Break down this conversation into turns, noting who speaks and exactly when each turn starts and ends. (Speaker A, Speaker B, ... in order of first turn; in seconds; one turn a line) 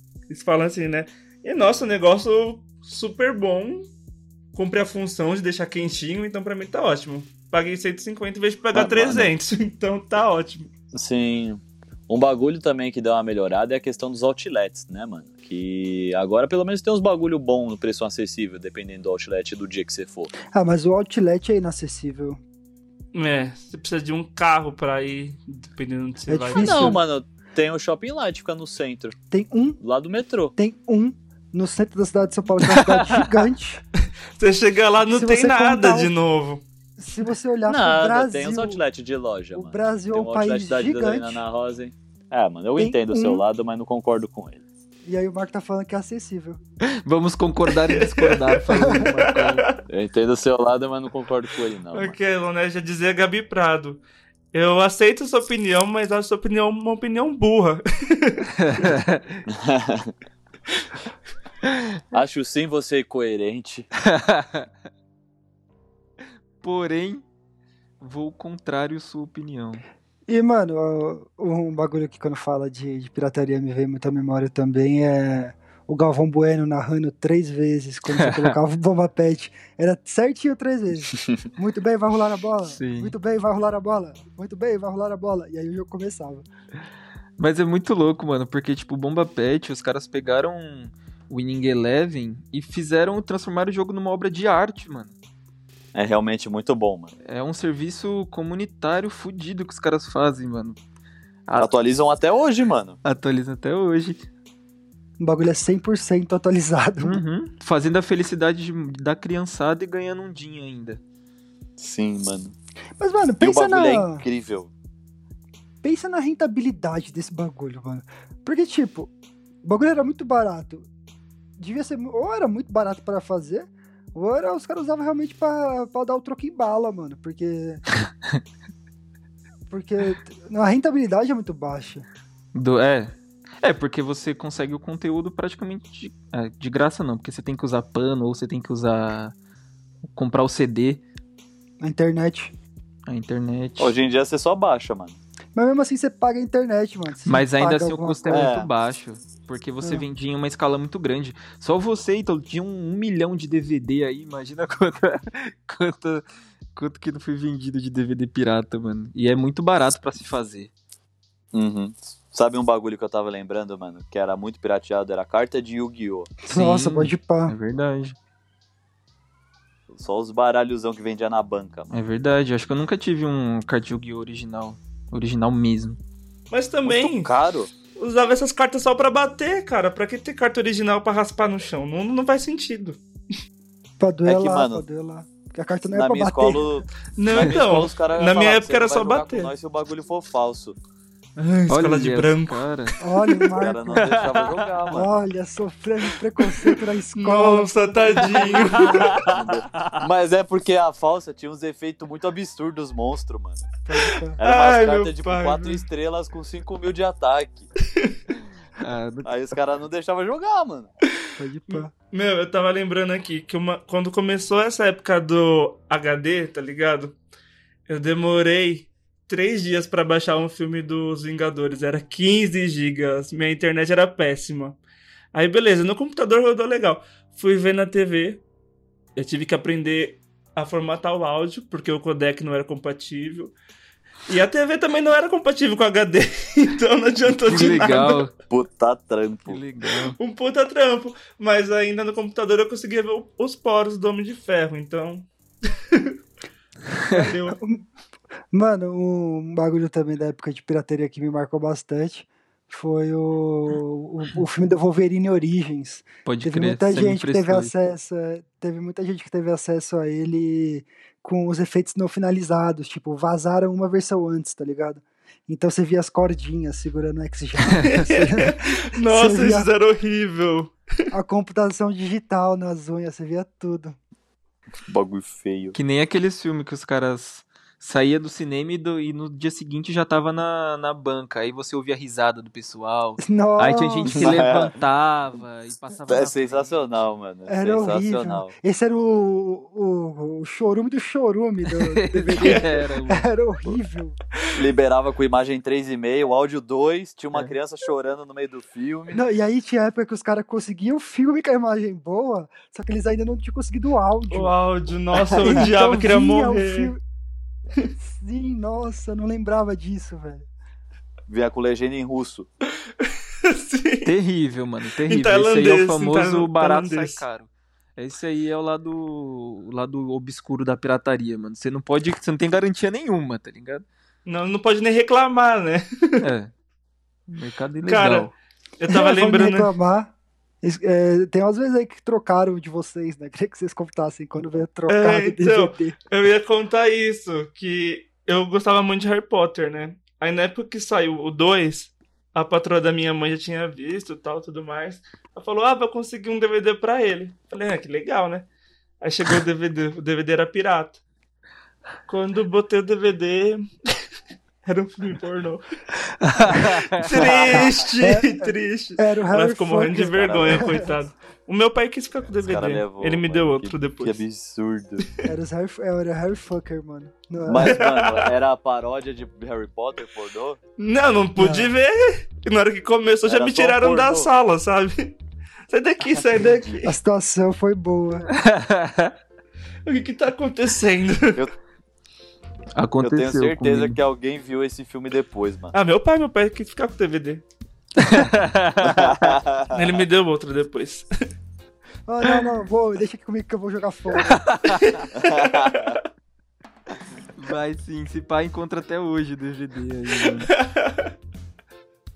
Speaker A: 0.3-3.9
Speaker A: 4.5-10.7
Speaker B: 8.7-9.3
Speaker B: 10.9-20.3
Speaker C: 20.5-22.4
Speaker A: 23.1-26.9
Speaker C: 26.3-27.0
Speaker B: 26.5-29.2
Speaker C: 29.3-29.8
Speaker B: 29.8-30.5
Speaker C: 30.6-33.8
Speaker D: 32.6-33.3
Speaker A: 34.4-36.6
Speaker C: 35.0-36.1
Speaker C: 37.0-38.8
Speaker B: 37.6-44.6
Speaker C: 39.5-41.4
Speaker C: 42.8-43.4
Speaker C: 45.0-46.6
Speaker D: 47.0-49.6
Speaker A: 47.7-49.7
Speaker C: 48.8-49.0
Speaker B: 49.9-52.2
Speaker A: 51.9-54.0
Speaker A: 54.5-58.5
Speaker D: 58.5-59.4
Speaker B: 59.5-60.1
Speaker D: 61.6-62.0
Speaker B: 62.1-63.9
Speaker D: 64.0-64.7
Speaker D: 66.6-67.2
Speaker D: 68.0-69.8
Speaker C: 70.3-86.4
Speaker D: 78.1-78.5
Speaker D: 82.7-83.1
Speaker D: 87.4-95.1
Speaker B: 95.9-97.1
Speaker D: 97.2-100.8
Speaker B: 101.6-103.0
Speaker D: 103.0-104.2
Speaker C: 105.2-107.2
Speaker D: 107.0-111.0
Speaker B: 111.8-112.5
Speaker C: 113.0-114.2
Speaker B: 113.4-114.7
Speaker C: 115.8-119.1
Speaker C: 119.6-120.9
Speaker C: 121.6-127.8
Speaker C: 129.7-132.1
Speaker D: 132.5-139.3
Speaker D: 140.1-141.0
Speaker C: 141.8-142.5
Speaker D: 143.1-143.9
Speaker B: 143.8-145.2
Speaker C: 145.6-148.5
Speaker D: 147.2-156.2
Speaker B: 148.3-148.7
Speaker D: 156.7-160.7
Speaker B: 161.5-166.3
Speaker C: 166.4-167.5
Speaker D: 166.5-168.2
Speaker B: 169.9-171.9
Speaker D: 171.9-176.0
Speaker A: 176.5-177.3
Speaker B: 176.8-177.7
Speaker A: 177.9-183.0
Speaker C: 184.0-186.6
Speaker B: 184.2-184.8
Speaker B: 185.9-190.8
Speaker A: 187.2-189.5
Speaker A: 191.4-192.6
Speaker D: 191.7-193.0
Speaker C: 193.0-194.0
Speaker B: 193.6-195.1
Speaker D: 194.1-194.5
Speaker C: 194.9-199.0
Speaker A: 197.2-199.2
Speaker B: 198.9-203.7
Speaker D: 199.0-199.9
Speaker C: 203.9-204.4
Speaker B: 204.4-207.7
Speaker A: 204.4-205.8
Speaker D: 208.8-209.3
Speaker B: 209.2-210.9
Speaker C: 211.3-211.9
Speaker A: 211.7-217.2
Speaker A: 217.9-224.8
Speaker A: 225.3-228.4
Speaker A: 229.2-233.5
Speaker A: 234.3-238.2
Speaker D: 237.4-238.3
Speaker B: 238.5-239.6
Speaker D: 239.5-240.2
Speaker A: 240.2-245.2
Speaker D: 246.9-247.2
Speaker A: 247.0-247.6
Speaker C: 248.5-269.7
Speaker D: 256.2-257.7
Speaker A: 267.8-270.8
Speaker C: 271.1-273.9
Speaker B: 274.9-275.7
Speaker D: 275.7-286.8
Speaker C: 283.2-284.4
Speaker B: 284.1-284.7
Speaker B: 286.1-288.5
Speaker C: 287.5-294.2
Speaker D: 291.7-293.3
Speaker B: 294.5-299.2
Speaker C: 299.1-304.5
Speaker A: 304.3-306.9
Speaker C: 305.4-307.0
Speaker C: 308.1-310.5
Speaker B: 311.3-312.5
Speaker A: 313.0-314.1
Speaker D: 314.0-323.8
Speaker A: 315.1-317.2
Speaker A: 324.2-326.2
Speaker D: 326.2-326.5
Speaker D: 327.3-328.3
Speaker A: 327.9-329.7
Speaker C: 328.9-330.1
Speaker C: 330.6-335.9
Speaker A: 334.9-348.4
Speaker A: 349.0-351.0
Speaker A: 352.1-354.0
Speaker A: 354.6-355.6
Speaker D: 356.2-357.5
Speaker A: 357.0-364.2
Speaker C: 357.5-360.9
Speaker B: 360.2-360.6
Speaker B: 362.4-365.0
Speaker C: 365.2-367.8
Speaker B: 367.4-370.6
Speaker A: 367.6-368.3
Speaker A: 370.8-375.2
Speaker C: 371.4-371.7
Speaker B: 373.2-374.3
Speaker A: 375.7-376.9
Speaker C: 376.8-378.3
Speaker D: 378.3-379.1
Speaker A: 379.9-381.4
Speaker D: 382.8-384.0
Speaker B: 383.0-385.8
Speaker A: 385.7-387.4
Speaker D: 387.9-389.4
Speaker B: 388.8-390.0
Speaker A: 389.7-391.1
Speaker C: 392.1-394.4
Speaker D: 394.1-395.0
Speaker A: 394.8-395.9
Speaker B: 395.2-395.9
Speaker D: 397.4-400.5
Speaker A: 400.5-401.1